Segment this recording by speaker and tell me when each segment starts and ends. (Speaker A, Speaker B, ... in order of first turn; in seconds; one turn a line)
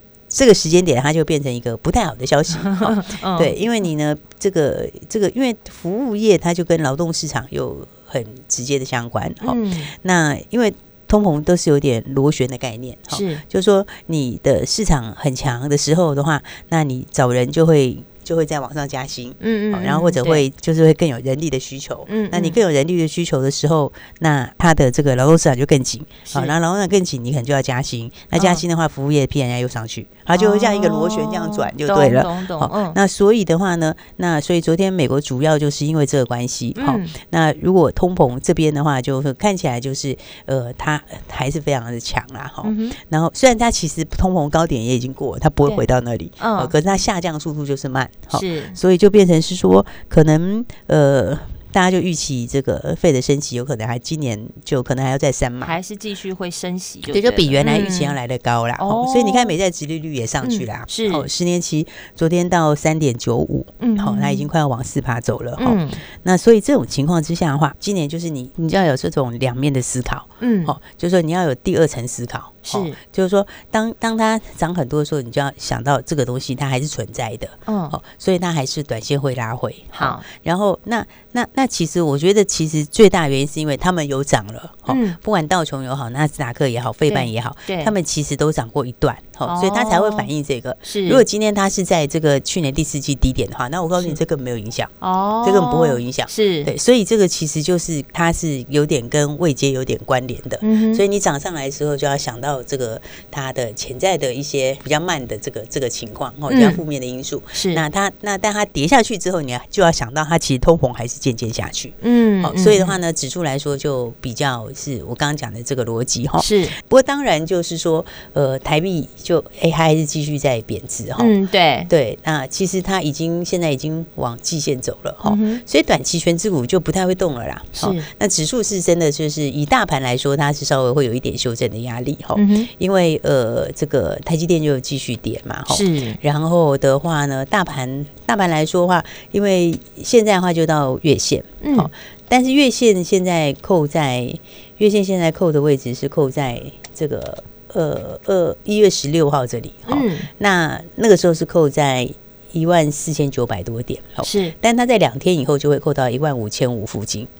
Speaker A: 0.3-55.8
Speaker B: 2.6-3.5
Speaker B: 9.4-9.9
Speaker B: 13.1-13.4
Speaker B: 19.4-20.4
Speaker B: 22.1-22.6
Speaker B: 26.3-26.5
Speaker B: 28.3-28.6
Speaker B: 30.3-33.0
Speaker B: 36.8-37.1
Speaker B: 42.6-43.0
Speaker B: 46.4-46.7
Speaker B: 48.3-48.8
Speaker B: 55.6-58.1
Speaker A: 57.0-94.9
Speaker B: 58.8-59.5
Speaker B: 60.4-61.2
Speaker B: 63.8-64.5
Speaker B: 65.6-66.0
Speaker B: 70.4-70.7
Speaker B: 72.7-73.0
Speaker B: 77.7-78.0
Speaker B: 79.9-80.2
Speaker B: 84.9-85.2
Speaker B: 87.1-87.9
Speaker B: 89.5-90.3
Speaker B: 90.8-91.2
Speaker B: 95.0-96.7
Speaker A: 95.4-121.3
Speaker B: 100.6-101.0
Speaker B: 106.5-106.8
Speaker B: 107.5-107.8
Speaker B: 112.0-112.9
Speaker B: 116.4-116.8
Speaker B: 121.2-121.9
Speaker A: 121.9-157.3
Speaker B: 125.2-125.6
Speaker B: 127.8-128.1
Speaker B: 132.3-132.7
Speaker B: 135.7-136.2
Speaker B: 141.6-141.9
Speaker B: 149.9-150.3
Speaker B: 154.2-154.5